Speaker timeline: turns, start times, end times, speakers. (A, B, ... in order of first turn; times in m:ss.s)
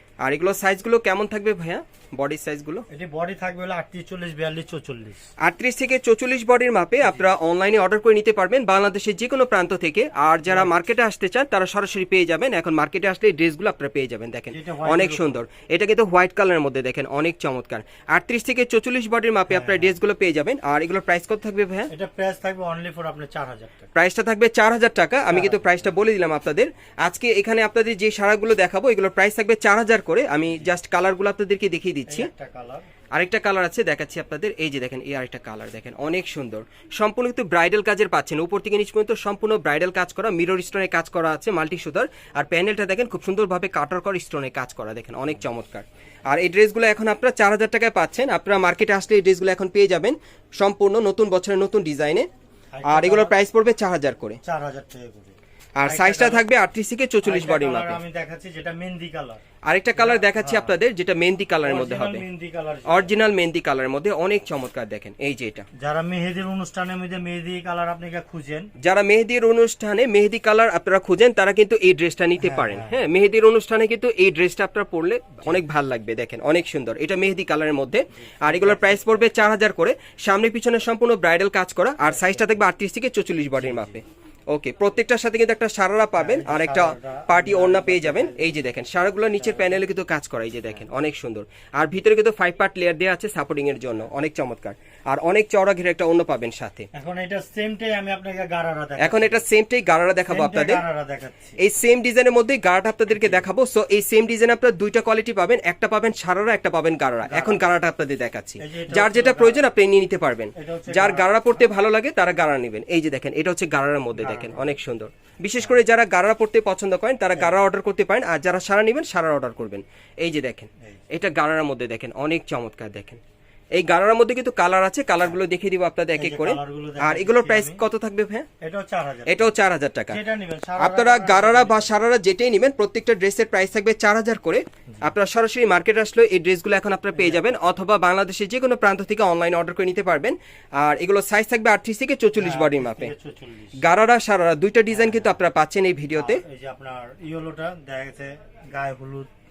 0:00.2-0:02.8 A
0:02.9-0:05.2 B
0:05.4-0:21.9 A
0:10.5-0:10.7 B
0:14.5-0:15.4 B
0:19.5-0:19.9 B
0:21.9-0:23.9 B
0:23.9-0:32.3 A
0:25.3-0:25.6 B
0:32.1-0:32.9 B
0:33.1-0:52.3 A
0:52.7-0:53.4 B
0:52.8-0:54.4 A
0:54.4-0:56.4 B
0:55.8-0:58.0 A
0:57.2-0:59.4 B
0:59.7-1:02.2 A
1:00.0-1:00.8 B
1:01.6-1:03.1 B
1:02.9-1:05.6 A
1:05.7-1:08.7 B
1:08.8-1:36.9 A
1:12.4-1:13.0 B
1:18.3-1:19.2 B
1:23.6-1:24.0 B
1:26.2-1:28.6 B
1:36.9-1:39.4 B
1:39.0-1:40.8 A
1:40.3-1:41.6 B
1:41.6-2:03.2 A
1:47.2-1:47.6 B
1:48.6-1:49.7 B
1:50.5-1:51.3 B
1:54.2-1:54.6 B
2:03.8-2:08.5 A
2:06.1-2:07.8 B
2:08.6-2:09.5 B
2:09.3-2:10.2 A
2:10.1-2:11.9 B
2:10.8-2:23.1 A
2:17.2-2:17.6 B
2:22.4-2:23.8 B
2:23.8-2:26.4 A
2:26.1-2:29.3 B